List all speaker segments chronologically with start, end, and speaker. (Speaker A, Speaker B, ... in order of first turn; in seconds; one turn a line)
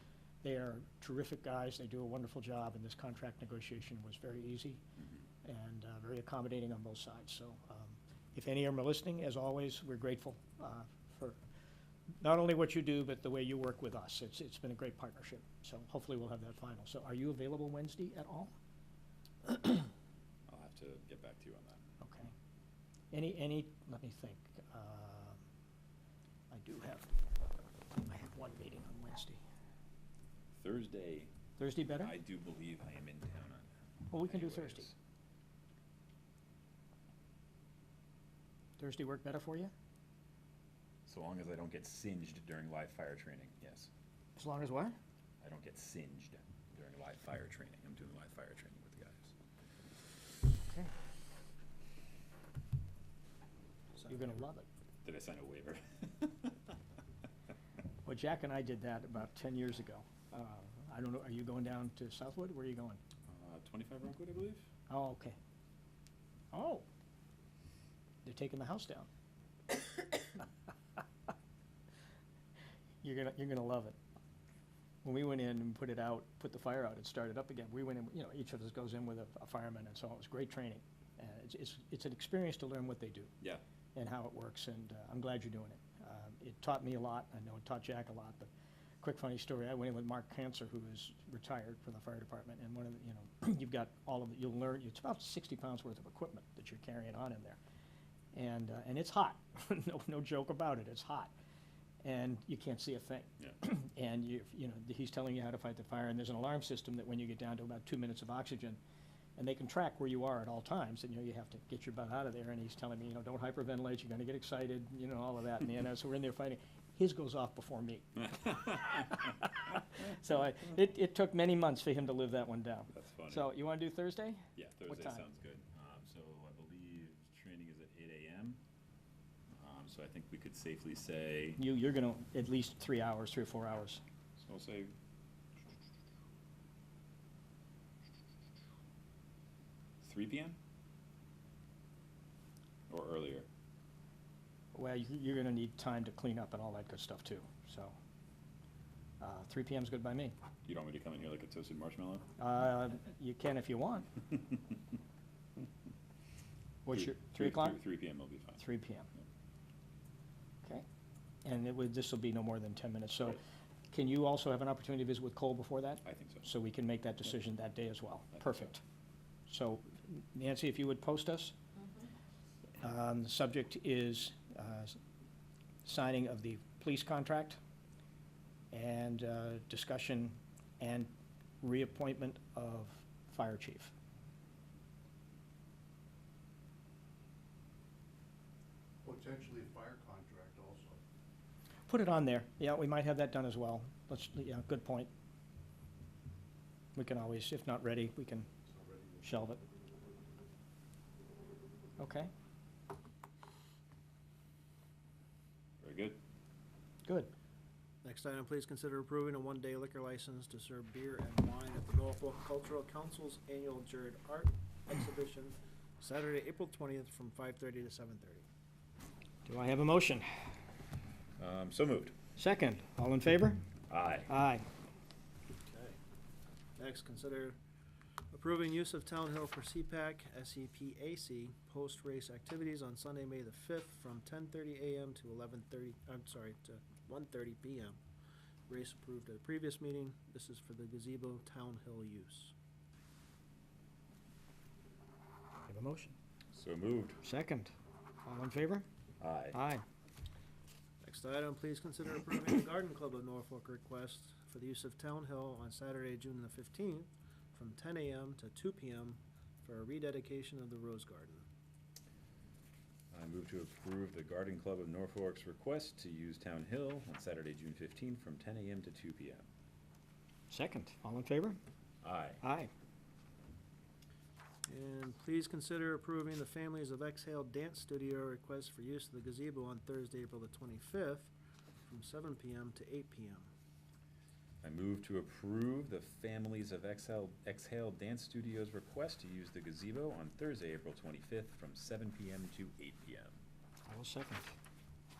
Speaker A: 0.4-4.8
Speaker A: 5.4-11.4
Speaker A: 12.2-18.5
Speaker B: 20.5-21.8
Speaker A: 22.0-22.3
Speaker A: 23.1-25.4
Speaker A: 26.5-27.1
Speaker A: 27.9-29.4
Speaker B: 30.6-31.3
Speaker A: 31.6-32.1
Speaker B: 32.0-34.9
Speaker A: 34.1-34.9
Speaker A: 38.8-39.7
Speaker B: 41.0-43.9
Speaker A: 44.4-45.0
Speaker B: 45.4-49.3
Speaker A: 50.5-50.9
Speaker A: 54.1-54.6
Speaker B: 55.0-56.8
Speaker A: 58.0-63.0
Speaker B: 63.3-64.7
Speaker A: 64.9-65.3
Speaker A: 66.5-66.8
Speaker A: 68.2-69.1
Speaker A: 73.0-74.0
Speaker A: 75.0-83.3
Speaker A: 83.9-88.5
Speaker A: 89.0-97.6
Speaker A: 98.3-101.3
Speaker A: 102.0-108.8
Speaker A: 109.4-125.2
Speaker B: 122.9-123.5
Speaker B: 124.5-128.6
Speaker B: 129.6-131.6
Speaker A: 131.6-134.0
Speaker B: 134.4-134.9
Speaker B: 140.0-140.6
Speaker B: 142.9-143.5
Speaker A: 144.7-147.9
Speaker A: 149.2-150.3
Speaker B: 150.6-152.3
Speaker A: 152.4-154.1
Speaker A: 156.8-157.8
Speaker B: 156.9-158.6
Speaker A: 158.6-159.1
Speaker A: 161.4-163.4
Speaker A: 163.9-168.8
Speaker B: 166.0-166.4
Speaker A: 169.5-171.6
Speaker A: 172.8-175.0
Speaker A: 175.8-177.6
Speaker A: 178.7-181.1
Speaker A: 181.6-183.9
Speaker C: 189.0-191.0
Speaker A: 191.9-195.1
Speaker A: 196.9-198.5
Speaker C: 198.7-199.2
Speaker A: 199.2-199.6
Speaker A: 202.0-202.3
Speaker B: 205.8-206.2
Speaker A: 207.0-207.3
Speaker D: 208.0-218.4
Speaker A: 219.4-220.3
Speaker B: 221.4-222.1
Speaker A: 222.4-223.6
Speaker B: 223.9-224.3
Speaker A: 224.3-224.7
Speaker D: 225.7-226.0
Speaker D: 226.8-227.6
Speaker D: 228.3-238.0
Speaker D: 238.7-242.5
Speaker A: 245.7-246.1
Speaker B: 246.5-247.2
Speaker A: 247.2-247.7
Speaker A: 248.2-248.8
Speaker B: 249.2-249.6
Speaker A: 249.5-249.8
Speaker D: 251.0-261.4
Speaker B: 263.1-269.4
Speaker A: 270.5-271.6
Speaker B: 272.0-272.4
Speaker A: 272.4-272.7
Speaker D: 274.7-281.3
Speaker D: 281.9-283.5
Speaker B: 284.6-293.4
Speaker A: 293.9-294.5